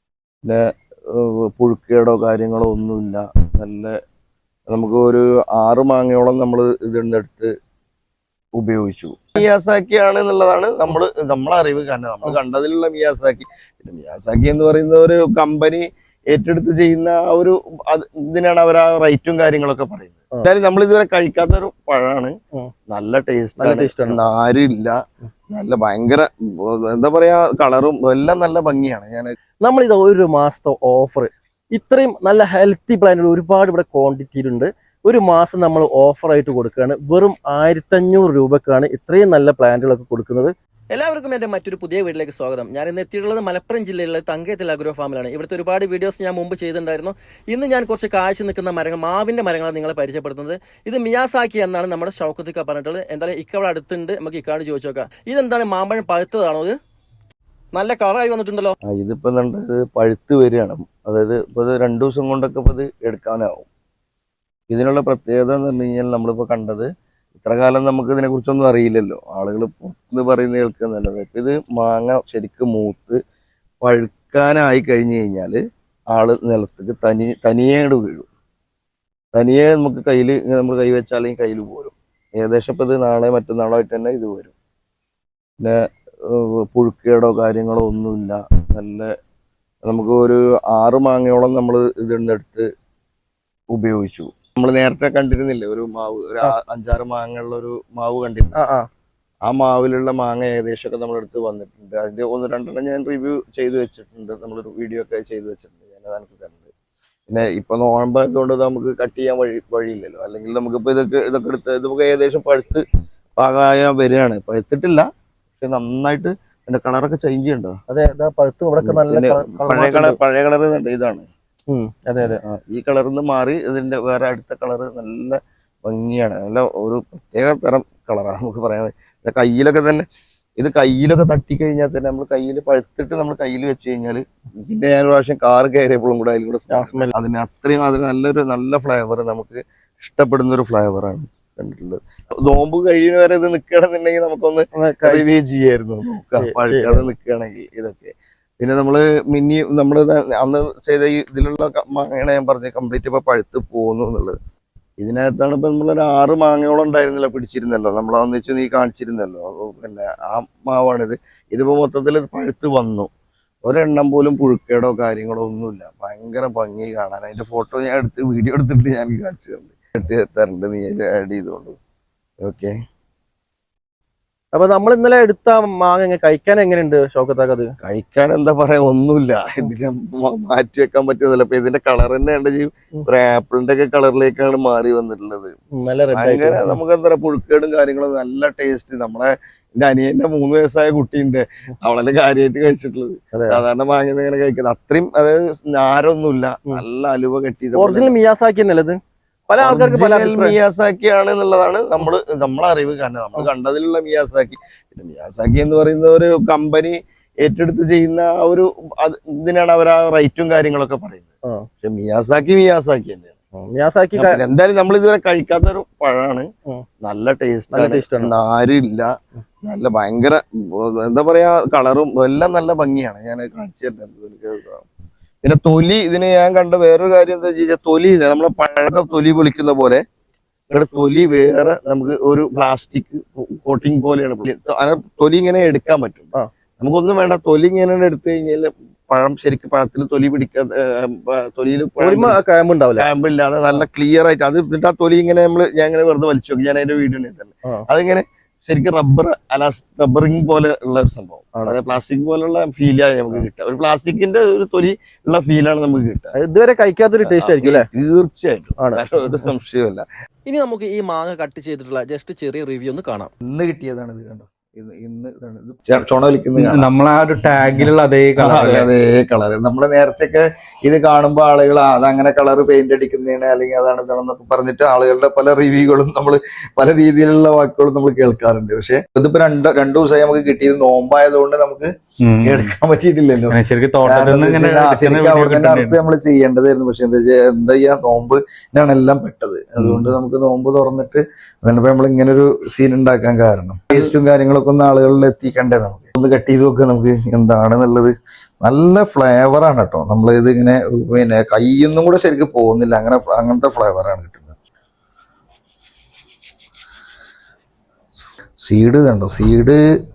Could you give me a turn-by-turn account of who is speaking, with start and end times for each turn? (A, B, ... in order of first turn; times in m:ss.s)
0:00.4-0:03.9 A
0:04.7-0:07.5 A
0:08.6-0:22.3 A
0:22.9-0:25.0 A
0:23.6-0:24.2 B
0:25.5-0:29.3 A
0:29.6-0:56.7 B
0:57.7-0:58.7 B
0:58.9-1:03.7 A
1:04.7-1:13.2 A
1:13.8-1:15.6 A
1:16.1-1:18.3 A
1:19.3-1:24.5 A
1:25.6-1:29.1 A
1:29.8-1:32.7 A
1:33.7-1:38.6 A
1:38.6-1:38.9 B
1:39.4-1:46.7 A
1:47.3-1:52.8 A
1:53.4-1:55.1 A
1:55.6-1:57.8 A
1:57.9-2:00.2 B
1:58.8-2:01.3 A
2:01.7-2:02.4 B
2:02.2-2:10.0 A
2:10.6-2:34.4 A
2:16.7-2:17.1 B
2:24.7-2:25.2 B
2:26.4-2:27.1 B
2:35.0-2:43.1 A
2:43.6-2:51.8 A
2:52.4-2:52.7 A
2:54.5-2:57.7 B
2:57.8-3:05.5 A
3:05.7-3:06.8 B
3:06.1-3:18.1 A
3:13.3-3:13.6 B
3:17.8-3:19.0 B
3:19.5-3:20.6 B
3:19.6-3:31.3 A
3:31.8-3:33.4 A
3:33.6-3:34.4 B
3:34.2-3:36.5 A
3:37.0-3:39.1 A
3:37.7-3:38.3 B
3:39.6-3:44.8 A
3:45.4-3:50.0 A
3:50.7-4:02.4 A
4:02.0-4:03.1 B
4:03.0-4:16.3 A
4:16.3-4:17.9 B
4:17.3-4:20.0 A
4:18.8-4:19.0 B
4:20.4-4:23.3 B
4:23.4-4:26.9 A
4:26.6-4:28.9 C
4:27.4-4:41.9 A
4:42.2-4:42.7 C
4:42.4-5:04.5 A
4:43.5-4:46.0 C
4:49.8-4:50.1 C
5:08.6-5:09.8 A